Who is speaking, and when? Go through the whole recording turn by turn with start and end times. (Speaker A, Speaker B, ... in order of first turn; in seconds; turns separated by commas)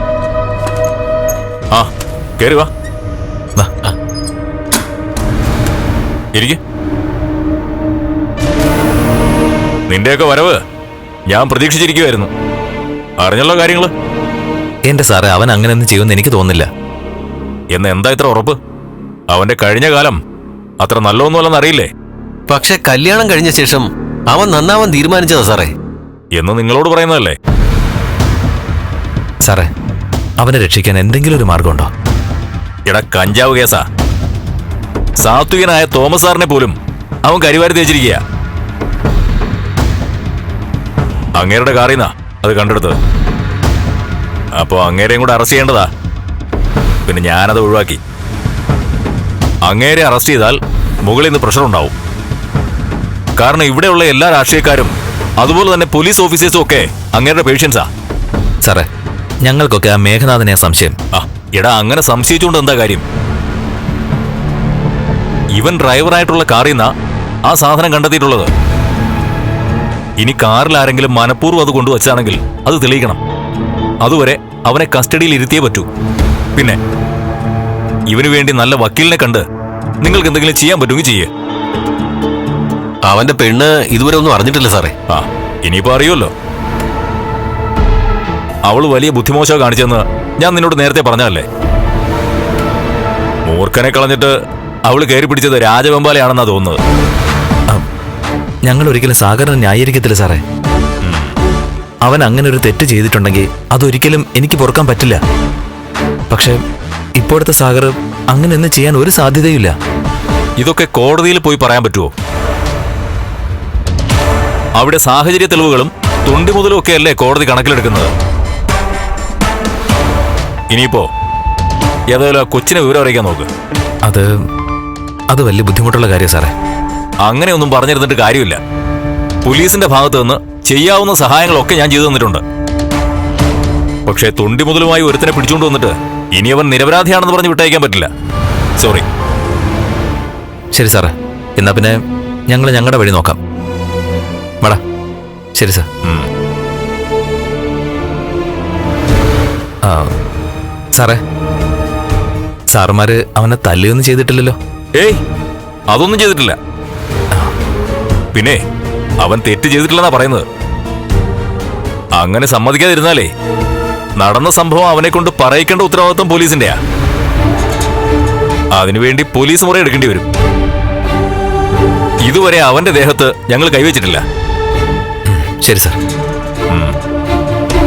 Speaker A: 1.7-2.7, Speaker A: 9.9-10.6, Speaker A: 11.3-12.3, Speaker A: 13.2-13.9, Speaker B: 14.9-16.7, Speaker A: 17.7-18.6, Speaker A: 19.3-20.2, Speaker A: 20.8-21.9, Speaker C: 22.5-25.7, Speaker A: 26.3-27.4, Speaker B: 30.4-31.9, Speaker A: 32.9-33.8, Speaker A: 35.2-38.2, Speaker A: 41.4-43.0, Speaker A: 44.6-45.9, Speaker A: 47.1-48.0, Speaker A: 49.6-51.9, Speaker A: 53.4-57.9, Speaker B: 59.4-61.0, Speaker A: 61.1-63.0, Speaker A: 65.5-66.9, Speaker A: 67.5-68.5, Speaker A: 70.2-73.2, Speaker A: 74.0-75.9, Speaker A: 78.1-79.4, Speaker A: 80.0-81.3, Speaker C: 83.0-84.9, Speaker A: 85.1-86.3, Speaker A: 88.7-91.5, Speaker A: 93.5-94.3, Speaker A: 94.9-96.8, Speaker B: 98.7-100.4, Speaker A: 101.0-101.3, Speaker B: 102.0-105.2, Speaker B: 106.3-106.6, Speaker B: 107.2-109.8, Speaker A: 110.6-112.1, Speaker A: 114.8-118.1, Speaker A: 120.7-121.1, Speaker A: 122.1-123.5, Speaker B: 124.0-124.3, Speaker B: 125.3-126.5, Speaker A: 127.2-128.6, Speaker A: 129.4-132.4, Speaker A: 134.1-138.1, Speaker A: 138.8-139.1, Speaker B: 140.7-142.0, Speaker B: 142.5-143.4, Speaker B: 145.6-145.9, Speaker B: 149.8-150.1, Speaker B: 150.9-151.2, Speaker B: 152.7-154.6, Speaker A: 155.9-156.6, Speaker A: 158.3-158.6, Speaker A: 159.2-160.4, Speaker A: 162.2-163.3, Speaker A: 164.2-166.8, Speaker A: 168.7-170.2, Speaker A: 172.2-174.2, Speaker B: 175.3-176.0, Speaker A: 176.7-177.0